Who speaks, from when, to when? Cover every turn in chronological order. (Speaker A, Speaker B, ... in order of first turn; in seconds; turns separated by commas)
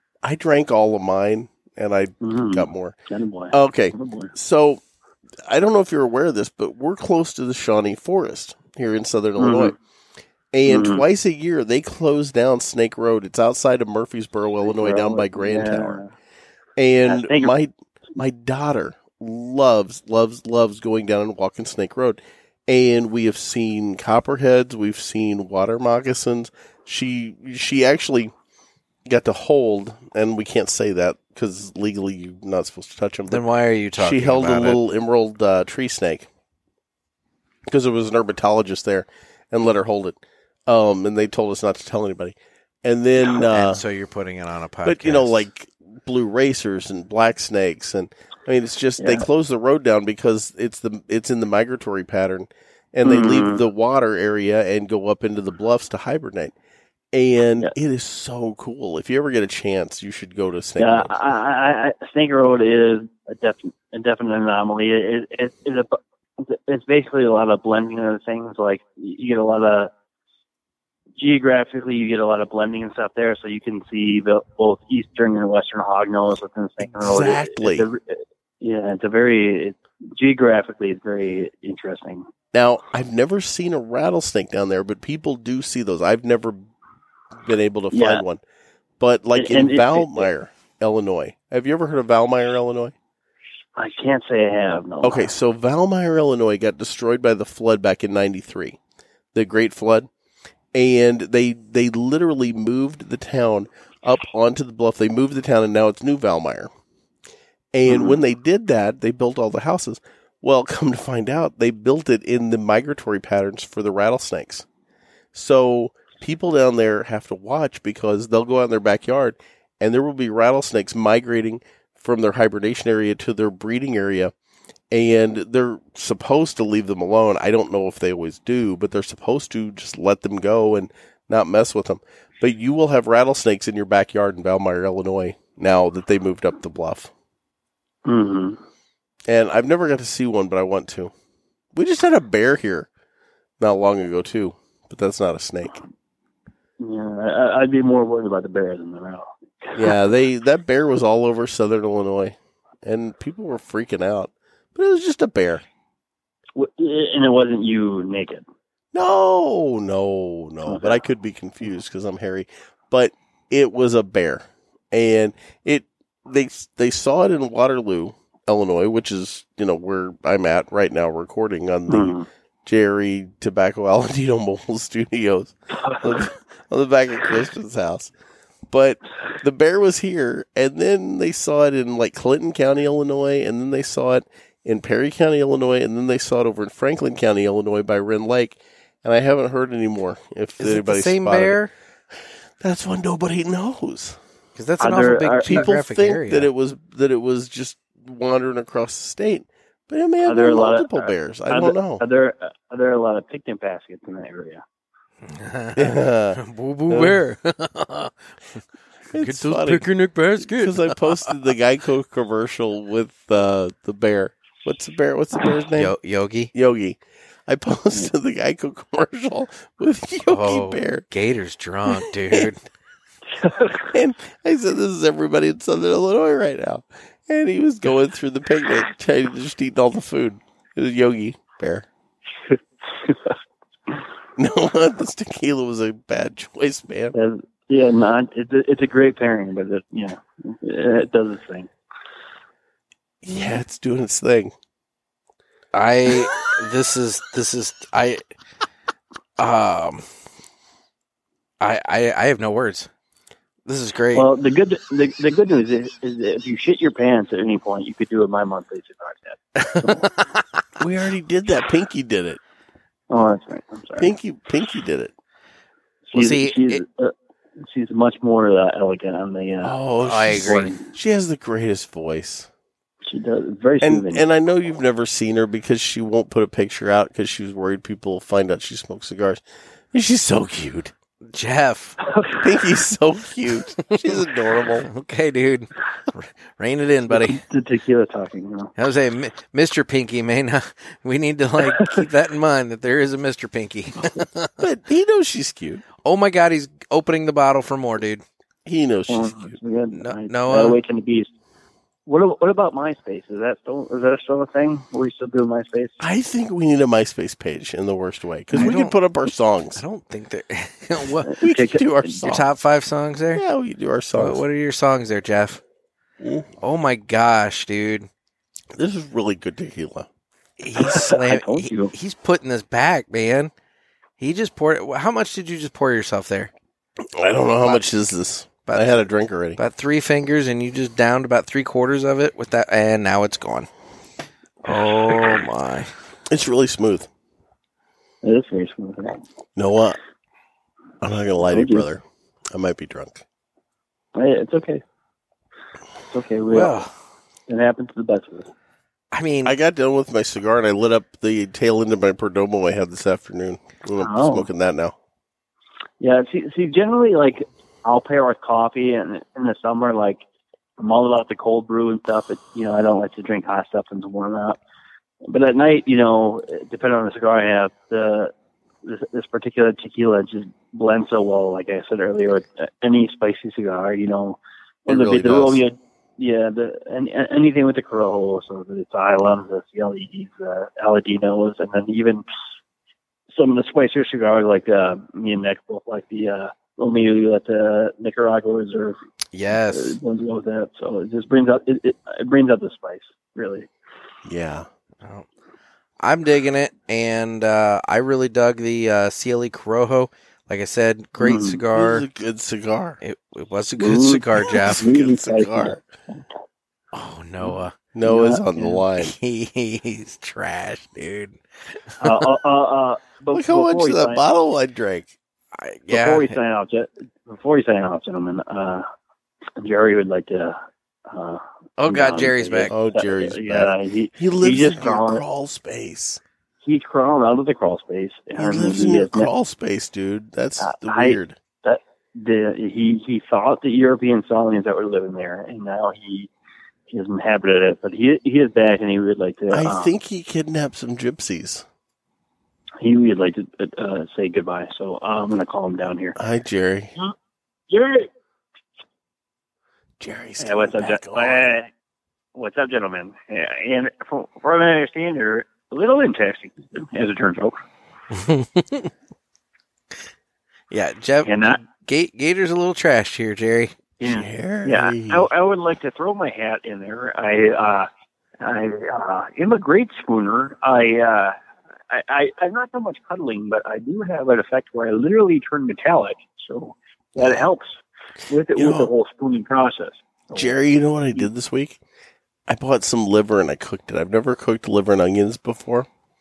Speaker A: 0.2-3.0, Speaker B: 2.2-4.3, Speaker A: 3.5-4.8, Speaker A: 5.5-9.8, Speaker B: 9.4-9.8, Speaker A: 10.5-16.0, Speaker B: 10.7-11.0, Speaker B: 14.7-16.1, Speaker A: 16.8-28.3, Speaker B: 17.1-17.5, Speaker A: 29.1-33.4, Speaker C: 33.3-34.8, Speaker A: 34.0-36.3, Speaker A: 37.7-43.8, Speaker C: 43.4-45.4, Speaker A: 44.9-56.5, Speaker B: 49.0-49.3, Speaker B: 53.0-53.6, Speaker A: 57.1-61.1, Speaker B: 60.8-69.9, Speaker B: 71.2-82.3, Speaker A: 76.8-77.9, Speaker A: 82.5-86.7, Speaker A: 87.4-88.4, Speaker B: 87.9-88.2, Speaker A: 89.0-92.9, Speaker B: 89.3-90.3, Speaker B: 93.8-95.3, Speaker A: 95.0-98.8, Speaker A: 99.3-100.1, Speaker A: 100.7-106.7, Speaker A: 107.7-114.7, Speaker B: 107.9-108.2, Speaker A: 115.3-124.3, Speaker A: 124.9-137.1, Speaker B: 138.1-138.6, Speaker A: 139.3-141.1, Speaker A: 141.7-142.9, Speaker A: 143.6-145.8, Speaker B: 146.8-149.9, Speaker A: 149.8-155.7, Speaker B: 156.6-158.4, Speaker A: 158.9-178.1, Speaker B: 160.7-161.0, Speaker B: 171.9-172.3, Speaker A: 178.7-191.6, Speaker C: 190.6-191.7, Speaker A: 192.6-194.2, Speaker C: 194.6-196.5, Speaker B: 194.8-195.7, Speaker A: 195.5-202.0, Speaker B: 200.2-204.6, Speaker C: 205.3-208.1, Speaker A: 205.8-207.2, Speaker A: 209.1-215.9, Speaker C: 209.2-211.3, Speaker C: 215.8-216.5, Speaker A: 216.5-221.1, Speaker C: 220.3-222.6, Speaker B: 223.3-223.9, Speaker A: 223.9-231.9, Speaker B: 232.5-233.3, Speaker A: 234.4-237.1, Speaker B: 237.1-241.7, Speaker A: 243.2-244.5, Speaker C: 245.7-248.2, Speaker C: 249.4-250.1, Speaker C: 251.6-252.9, Speaker C: 253.7-254.3, Speaker B: 254.1-260.0, Speaker C: 259.6-260.4, Speaker A: 260.8-262.4, Speaker B: 263.1-264.1, Speaker A: 264.0-265.1, Speaker B: 266.1-269.8, Speaker C: 266.1-266.8, Speaker A: 269.6-272.5, Speaker C: 270.0-270.7, Speaker B: 270.5-270.9, Speaker B: 273.1-274.2, Speaker A: 273.8-280.9, Speaker C: 281.3-282.0, Speaker B: 282.1-282.4, Speaker A: 282.4-284.9, Speaker C: 283.9-284.2, Speaker C: 284.8-287.4, Speaker B: 287.1-288.7, Speaker C: 288.8-294.5, Speaker A: 294.6-295.9, Speaker C: 296.0-298.2, Speaker A: 298.7-299.6, Speaker B: 299.1-301.3, Speaker C: 299.9-300.8, Speaker B: 302.1-306.0, Speaker A: 306.0-309.8, Speaker C: 308.5-309.0, Speaker C: 309.8-311.4, Speaker B: 311.3-312.2, Speaker A: 311.4-312.5, Speaker C: 312.2-313.4, Speaker A: 313.4-314.4, Speaker C: 314.2-315.6, Speaker A: 316.2-316.5, Speaker C: 316.6-318.1, Speaker A: 318.7-320.1, Speaker C: 320.6-323.5, Speaker B: 320.8-321.9, Speaker C: 324.2-326.5, Speaker A: 327.1-329.6, Speaker C: 328.7-329.1, Speaker C: 329.6-333.7, Speaker C: 334.7-335.9, Speaker A: 336.3-337.1, Speaker B: 338.2-339.2, Speaker A: 339.6-340.0, Speaker A: 341.0-343.2, Speaker B: 341.5-341.9, Speaker B: 344.1-344.8, Speaker B: 346.1-346.9, Speaker C: 346.5-346.9, Speaker B: 347.5-348.5, Speaker C: 349.1-349.6, Speaker A: 349.4-354.9, Speaker B: 354.0-354.5, Speaker B: 356.0-360.2, Speaker B: 360.8-364.6, Speaker B: 365.2-368.3, Speaker B: 368.8-382.2, Speaker A: 374.9-375.6, Speaker B: 383.3-389.0, Speaker C: 389.3-390.0, Speaker B: 389.7-393.7, Speaker A: 394.2-394.7, Speaker C: 396.0-402.1, Speaker B: 401.2-401.6, Speaker A: 401.7-403.0, Speaker C: 403.0-404.9, Speaker B: 403.8-406.2, Speaker A: 404.4-405.8, Speaker C: 406.9-407.8, Speaker B: 407.4-408.8, Speaker A: 407.9-409.1, Speaker C: 409.0-411.4, Speaker B: 412.0-414.2, Speaker A: 413.3-415.1, Speaker C: 415.6-416.4, Speaker B: 415.9-418.9, Speaker B: 419.6-425.2, Speaker C: 421.8-422.7, Speaker A: 422.7-426.2, Speaker B: 426.6-429.3, Speaker A: 428.4-431.4, Speaker B: 430.6-436.3, Speaker B: 436.9-439.9, Speaker A: 439.5-441.7, Speaker B: 442.8-446.2, Speaker A: 446.2-446.9, Speaker B: 447.7-448.1, Speaker A: 450.0-451.6, Speaker B: 450.4-451.7, Speaker B: 452.4-457.6, Speaker C: 458.1-458.9, Speaker C: 460.7-463.8, Speaker B: 461.2-461.6, Speaker B: 464.0-467.9, Speaker A: 464.0-465.3, Speaker B: 468.4-471.4, Speaker B: 471.9-477.8, Speaker B: 478.3-480.6, Speaker A: 478.6-478.9, Speaker A: 480.3-481.8, Speaker A: 482.5-485.9